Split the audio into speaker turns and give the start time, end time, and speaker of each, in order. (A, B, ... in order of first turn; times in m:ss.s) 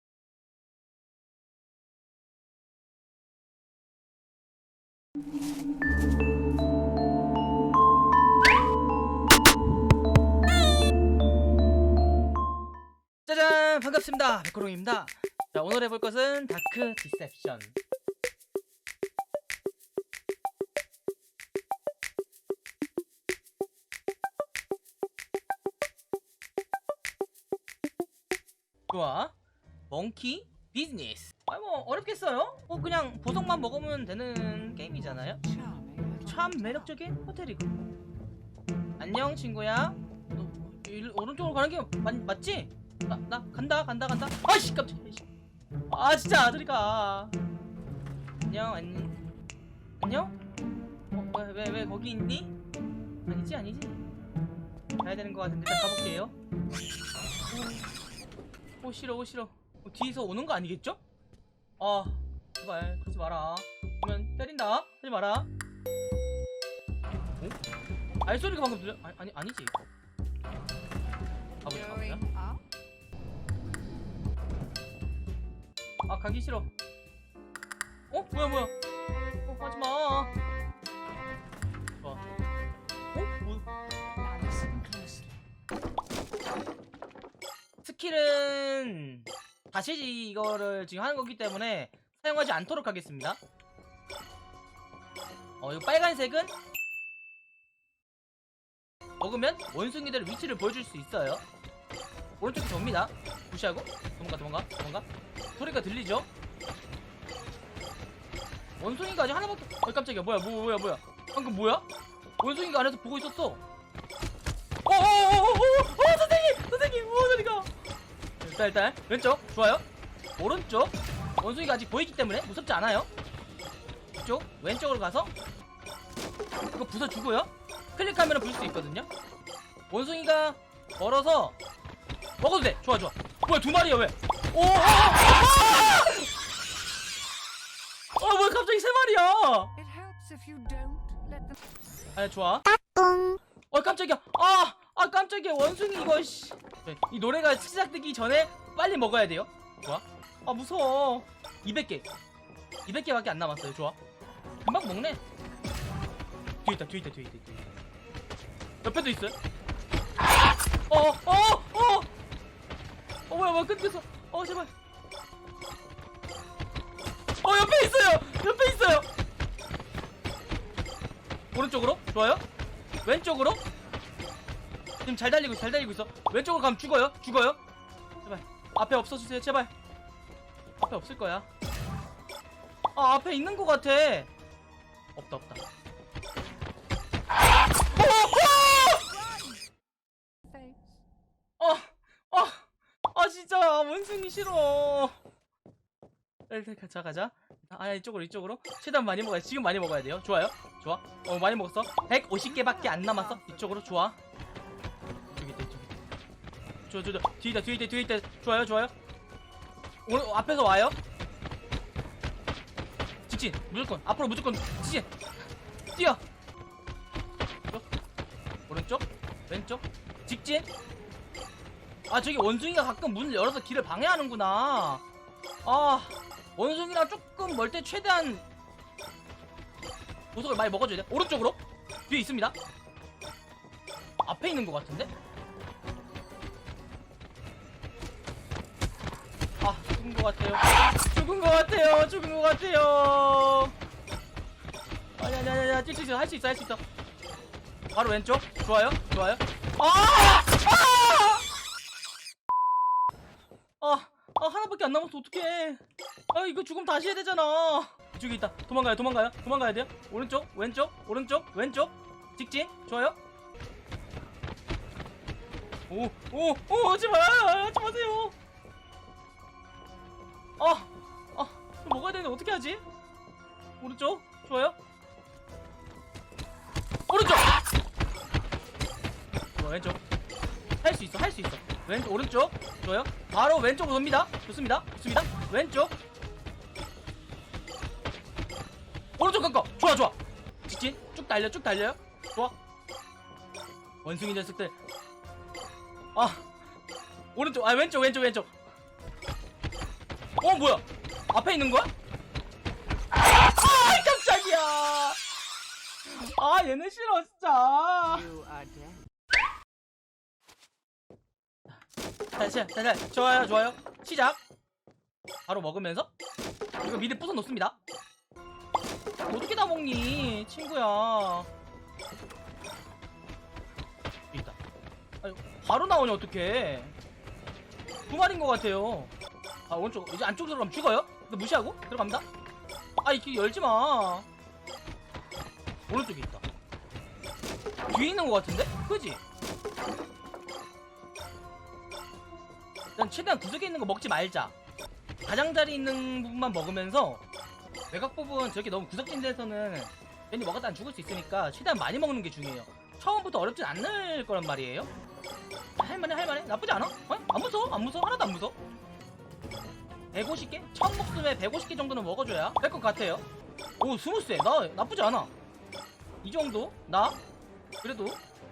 0:13.3-0:17.8 A
0:28.9-0:29.3 A
0:29.9-0:35.4 A
0:35.4-0:36.9 B
0:36.3-0:37.7 A
0:39.0-0:45.2 A
0:45.9-0:47.4 A
0:48.4-0:49.2 A
0:50.0-0:50.3 A
0:51.1-0:52.5 A
0:53.3-0:54.0 A
0:55.0-0:56.3 A
0:57.5-0:57.9 A
0:58.8-1:01.0 A
1:01.8-1:05.5 A
1:08.2-1:09.7 A
1:11.6-1:12.2 A
1:11.7-1:12.6 B
1:16.1-1:16.7 A
1:18.1-1:18.7 A
1:19.5-1:20.3 A
1:23.1-1:23.6 A
1:24.2-1:25.3 B
1:27.8-1:33.4 A
1:35.6-1:36.5 A
1:39.2-1:41.4 A
1:42.4-1:45.1 A
1:45.6-1:46.3 A
1:48.8-1:51.9 A
1:52.4-1:53.6 A
1:54.9-1:57.7 A
1:58.4-1:59.8 A
2:00.4-2:03.1 A
2:04.2-2:05.3 A
2:06.7-2:09.1 A
2:09.9-2:11.6 A
2:12.4-2:16.3 A
2:18.2-2:19.7 A
2:19.8-2:21.6 B
2:22.2-2:22.7 A
2:23.7-2:32.1 A
2:32.9-2:34.0 A
2:34.6-2:35.2 A
2:36.6-2:37.7 A
2:38.8-2:39.4 A
2:40.9-2:42.1 A
2:43.3-2:44.7 A
2:47.4-2:49.1 A
2:51.5-2:52.4 A
2:53.0-2:53.6 A
2:55.0-2:57.6 A
2:58.2-2:59.7 A
3:00.8-3:01.5 A
3:03.0-3:04.3 A
3:05.2-3:05.6 A
3:07.9-3:09.1 A
3:08.6-3:09.6 B
3:10.5-3:10.9 B
3:11.6-3:15.2 A
3:16.5-3:24.2 A
3:22.4-3:23.9 B
3:25.3-3:25.9 A
3:26.9-3:28.9 A
3:30.1-3:31.0 A
3:33.3-3:35.1 A
3:35.9-3:36.2 A
3:38.7-3:40.7 A
3:42.1-3:45.0 A
3:45.6-3:48.4 A
3:50.3-3:52.6 A
3:54.2-3:55.1 A
3:59.6-4:03.7 A
4:05.2-4:06.8 A
4:07.9-4:11.5 A
4:13.8-4:15.8 A
4:16.3-4:23.2 A
4:25.9-4:28.4 A
4:30.6-4:32.8 A
4:33.8-4:34.8 A
4:37.1-4:37.5 A
4:39.6-4:40.0 A
4:40.8-4:45.9 A
4:49.2-4:52.6 A
4:54.0-4:54.8 A
4:56.2-4:56.5 A
4:57.4-4:58.5 A
5:00.4-5:01.9 A
5:03.5-5:05.2 A
5:06.1-5:08.3 A
5:08.2-5:09.0 B
5:12.4-5:14.4 A
5:15.5-5:16.1 A
5:16.8-5:17.8 A
5:19.2-5:21.5 A
5:24.3-5:24.6 A
5:25.2-5:27.0 A
5:28.1-5:29.1 A
5:29.7-5:32.2 A
5:33.0-5:34.3 A
5:35.9-5:36.4 A
5:37.9-5:39.2 A
5:43.0-5:44.5 A
5:45.2-5:47.2 A
5:47.9-5:54.9 A
5:55.8-5:58.6 A
6:00.1-6:03.2 A
6:03.8-6:05.3 A
6:06.2-6:07.2 A
6:07.8-6:08.2 A